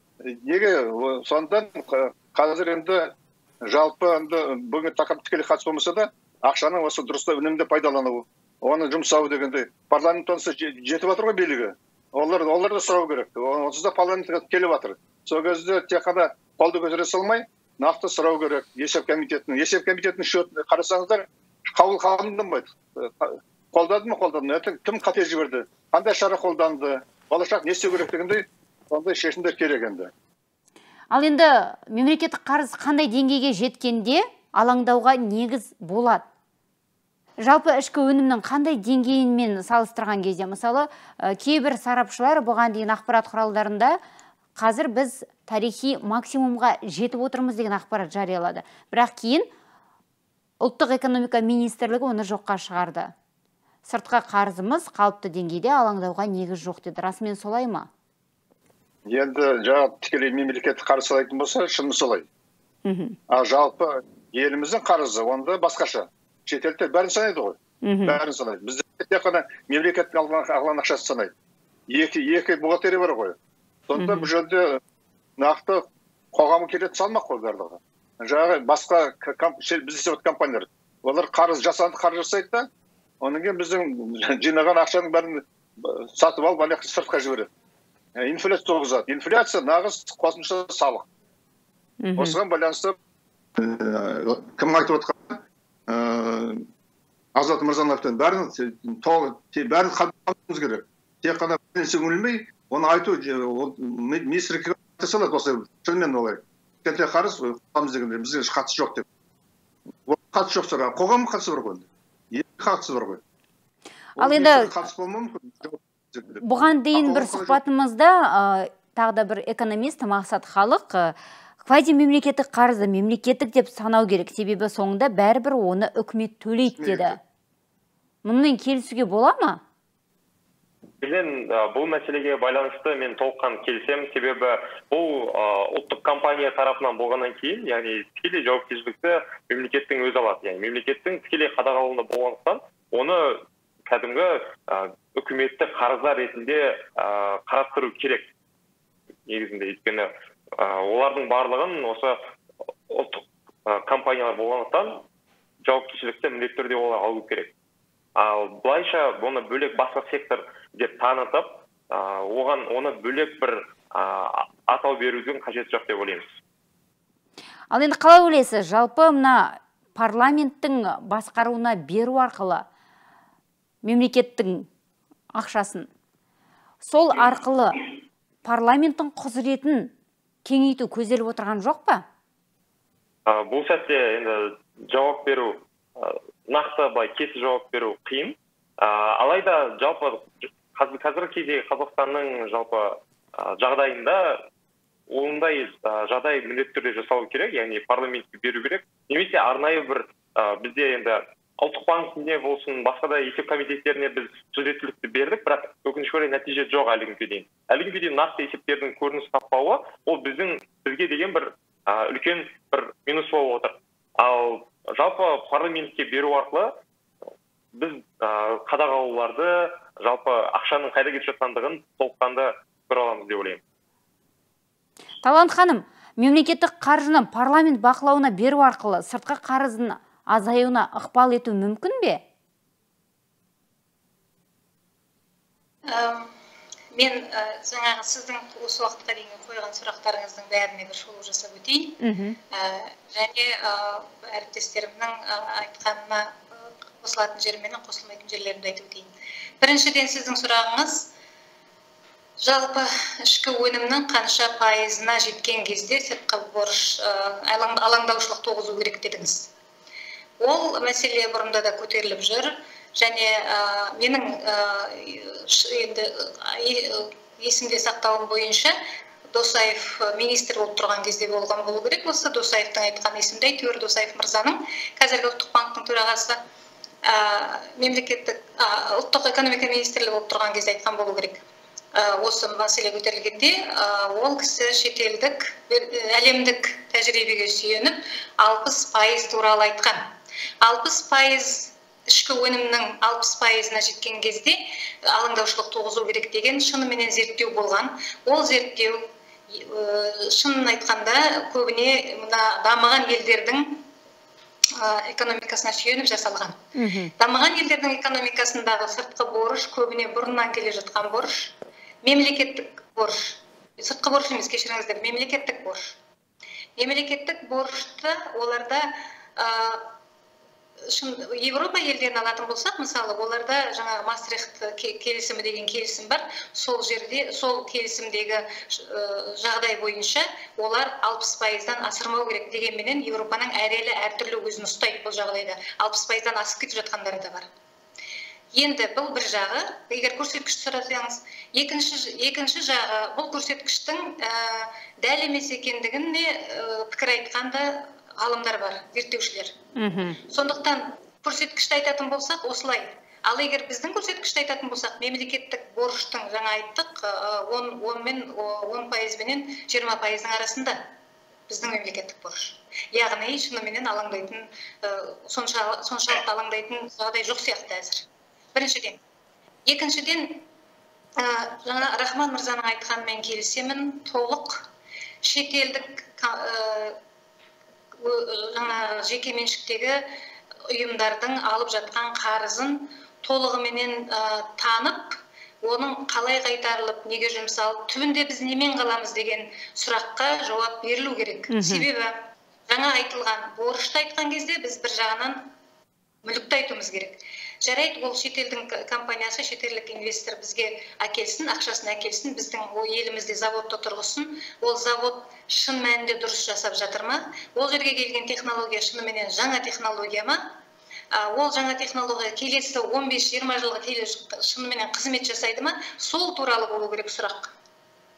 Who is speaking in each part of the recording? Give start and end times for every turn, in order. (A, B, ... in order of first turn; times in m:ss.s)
0:00.2-0:30.1 A
0:31.1-0:36.2 B
0:37.4-0:44.0 B
0:44.6-0:49.5 B
0:50.6-0:53.1 B
0:53.9-0:57.9 B
0:59.1-1:02.2 A
1:02.8-1:03.2 B
1:03.3-1:11.3 A
1:07.8-1:08.2 B
1:11.9-1:13.4 A
1:13.9-1:14.8 A
1:14.0-1:14.3 B
1:15.4-1:22.7 A
1:23.2-1:27.5 A
1:28.2-1:31.1 A
1:32.0-1:32.4 B
1:32.2-1:32.9 A
1:33.6-1:36.6 A
1:37.4-1:49.1 A
1:50.0-1:53.2 A
1:54.2-1:57.6 A
1:54.2-1:54.8 B
1:56.4-2:07.2 B
2:06.7-2:07.2 A
2:08.2-2:09.6 B
2:11.0-2:28.3 C
2:29.3-2:32.2 C
2:32.9-2:35.0 C
2:35.6-2:37.5 C
2:38.2-2:46.3 C
2:47.7-2:52.6 B
2:53.8-2:54.7 B
2:55.4-2:55.9 B
2:56.8-2:57.9 B
2:58.4-2:59.9 B
3:00.4-3:02.0 B
3:03.3-3:14.4 C
3:15.1-3:36.7 C
3:37.7-3:43.6 C
3:45.2-3:52.2 B
3:55.9-3:56.3 D
3:56.9-4:02.0 D
4:02.0-4:02.4 B
4:02.5-4:09.1 D
4:09.6-4:11.1 D
4:12.4-4:19.5 D
4:20.4-4:28.7 D
4:29.3-4:36.4 D
4:37.0-4:41.4 D
4:41.9-4:50.0 D
4:50.6-5:03.8 D
5:04.7-5:06.6 D
5:06.8-5:07.1 B
5:07.2-5:16.0 D
5:16.8-5:19.9 D
5:20.9-5:37.5 D
5:38.5-5:49.5 D
5:49.8-5:50.2 B
5:50.2-6:00.8 D
6:01.5-6:09.0 D
6:09.6-6:10.4 D
6:11.2-6:14.6 D
6:15.2-6:17.0 D
6:18.0-6:20.0 D
6:20.7-6:32.1 D
6:31.5-6:31.9 B
6:32.7-6:35.4 D
6:36.2-6:50.4 D
6:51.1-6:57.5 D